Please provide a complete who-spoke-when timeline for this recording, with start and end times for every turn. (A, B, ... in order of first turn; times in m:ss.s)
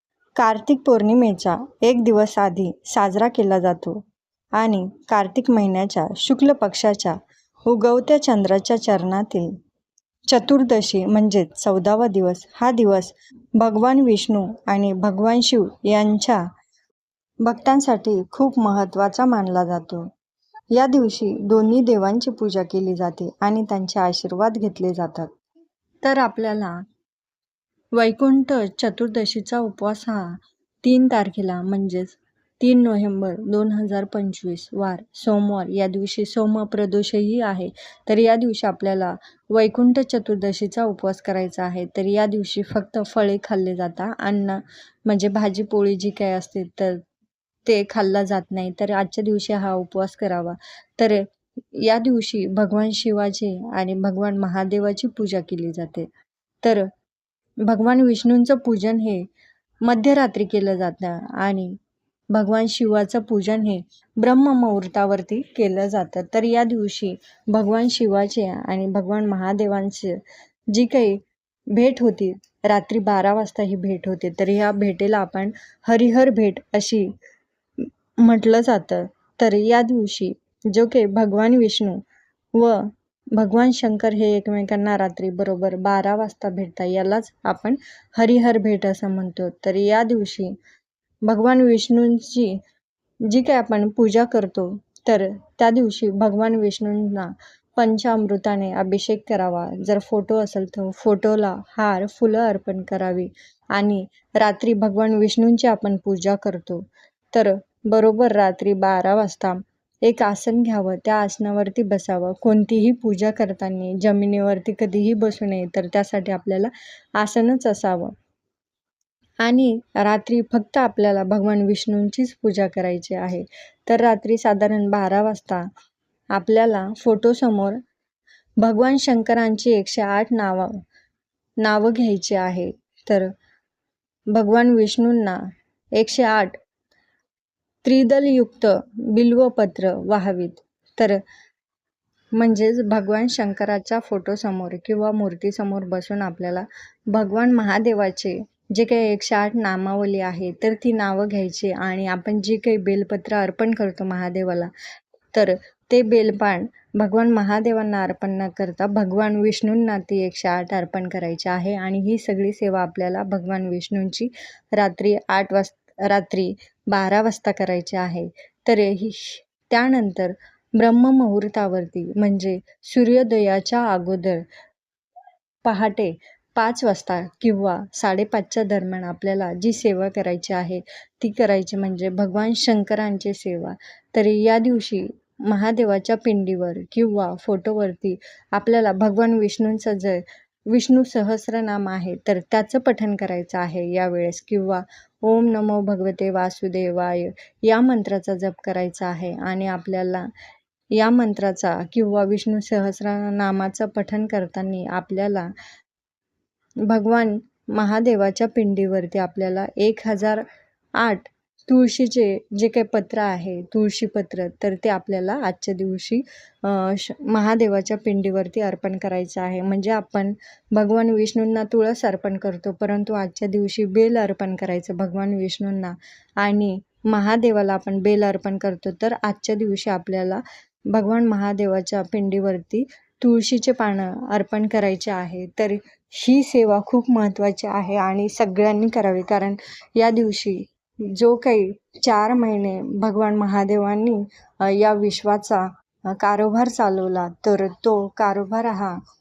0:00.4-0:04.0 A
0:04.6-0:09.5 A
0:10.3-0:16.5 A
0:17.4-0:20.1 A
0:20.7-0:25.3 A
0:26.0-0:26.8 A
0:28.0-0:47.0 A
0:47.7-0:51.2 A
0:51.8-0:56.1 A
0:57.7-0:59.2 A
0:59.8-1:01.8 A
1:02.3-1:10.2 A
1:10.7-1:11.2 A
1:11.8-1:17.1 A
1:18.2-1:22.0 A
1:22.6-1:30.6 A
1:31.3-1:32.6 A
1:33.3-1:58.1 A
1:59.4-2:05.7 A
2:06.3-2:07.8 A
2:08.6-2:10.8 A
2:11.6-2:13.3 A
2:14.3-2:15.4 A
2:16.0-2:16.6 A
2:17.8-2:21.2 A
2:22.4-2:34.7 A
2:35.3-2:54.4 A
2:55.6-3:20.3 A
3:20.9-3:25.5 A
3:26.9-3:30.4 A
3:31.0-4:09.0 A